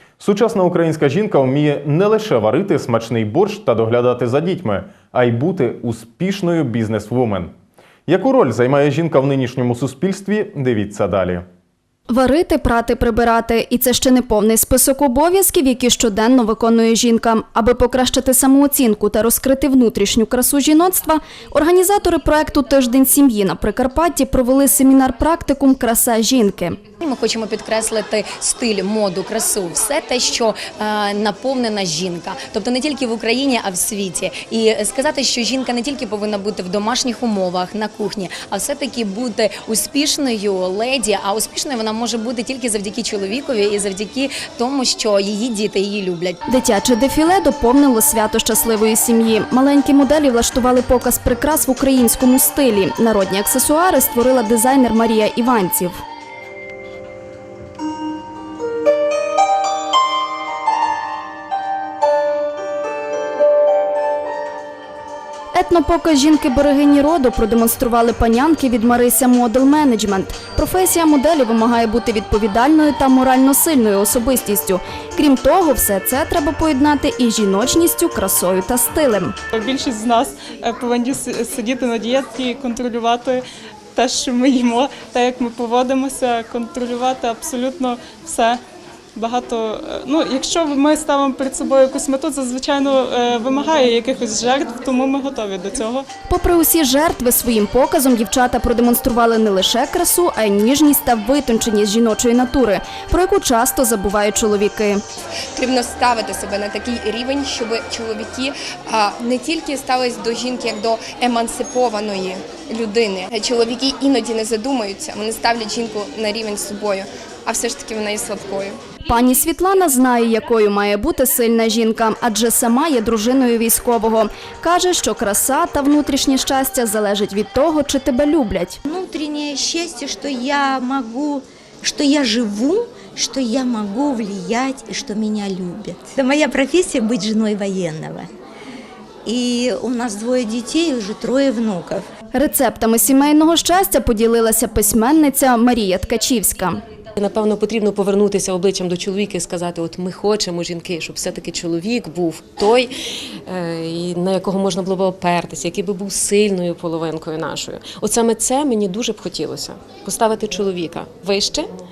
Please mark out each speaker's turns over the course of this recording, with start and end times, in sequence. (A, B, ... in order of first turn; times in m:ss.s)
0:00.2-0:07.5 A
0:08.1-0:11.4 A
0:12.1-0:26.8 B
0:27.0-0:46.4 C
0:46.5-0:56.0 B
1:05.5-1:19.3 B
1:19.5-1:23.4 D
1:23.9-1:28.6 D
1:29.2-1:36.1 D
1:36.3-1:45.0 B
1:45.6-1:58.8 E
1:59.1-2:08.8 B
2:08.9-2:18.3 F
2:19.2-2:22.1 F
2:22.3-2:26.8 B
2:27.2-2:32.9 G
2:33.5-2:41.7 G